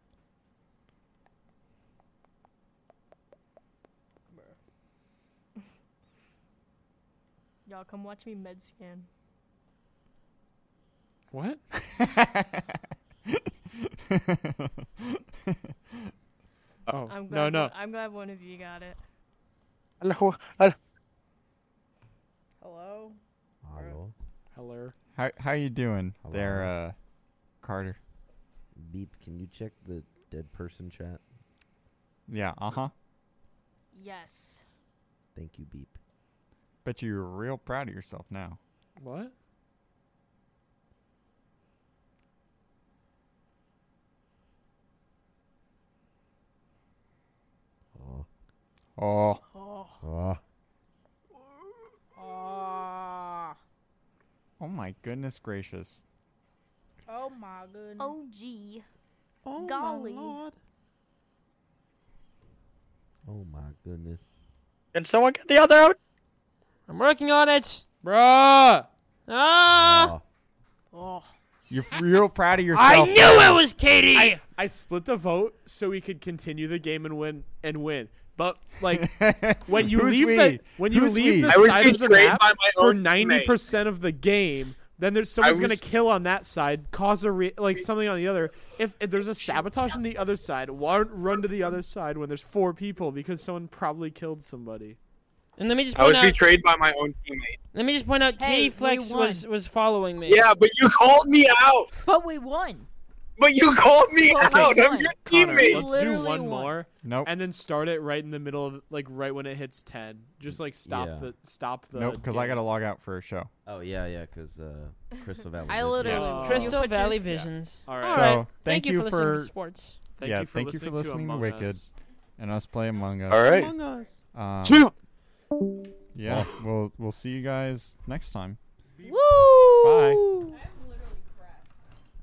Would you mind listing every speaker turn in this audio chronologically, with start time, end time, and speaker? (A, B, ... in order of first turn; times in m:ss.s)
0:07.6-0:09.1 A
0:11.3-0:11.6 B
0:12.2-0:12.4 C
0:14.1-0:14.7 C
0:16.9-0:17.7 B
0:17.0-0:19.0 A
0:20.0-0:20.8 D
0:22.6-0:23.2 E
0:23.6-0:24.1 F
0:23.7-0:24.0 E
0:24.5-0:25.0 B
0:25.1-0:27.0 C
0:26.2-0:26.7 F
0:27.6-0:28.0 C
0:28.7-0:31.2 F
0:32.3-0:32.9 C
0:33.9-0:34.6 A
0:35.3-0:36.0 F
0:36.8-0:38.6 C
0:39.0-0:39.3 B
0:47.9-0:48.2 F
0:49.0-0:49.4 C
0:49.5-0:50.0 A
0:50.0-0:50.4 F
0:52.1-0:53.6 E
0:54.6-0:56.0 C
0:57.1-0:58.2 E
0:58.0-0:58.8 A
0:59.4-1:00.6 F
0:59.6-1:00.4 A
1:03.2-1:04.2 F
1:04.9-1:06.0 D
1:06.9-1:07.8 G
1:08.0-1:08.9 B
1:09.3-1:10.2 G
1:09.7-1:10.2 F
1:10.9-1:11.2 A
1:11.7-1:13.6 C
1:12.7-1:14.4 G
1:14.1-1:35.0 B
1:18.9-1:21.7 C
1:21.5-1:23.6 H
1:25.4-1:25.8 H
1:35.6-1:36.4 G
1:35.9-1:37.6 H
1:37.7-1:40.4 G
1:38.4-1:39.5 E
1:40.2-1:41.9 H
1:41.9-1:42.9 E
1:43.4-1:45.9 H
1:44.2-1:46.8 E
1:45.3-1:52.6 B
1:47.0-1:47.3 C
1:50.4-1:51.3 F
1:51.9-1:53.5 C
1:53.6-1:56.4 F
1:55.7-1:57.2 E
1:56.0-1:58.5 B
1:56.3-2:00.0 G
1:56.7-1:57.2 A
1:58.1-1:59.5 C
2:00.2-2:01.8 C
2:00.2-2:01.9 B
2:02.4-2:03.7 C
2:03.3-2:03.7 D
2:03.3-2:04.2 F
2:04.3-2:04.9 C
2:04.6-2:04.9 D
2:06.1-2:08.6 C
2:09.1-2:10.5 G
2:09.8-2:10.2 C
2:10.5-2:11.7 E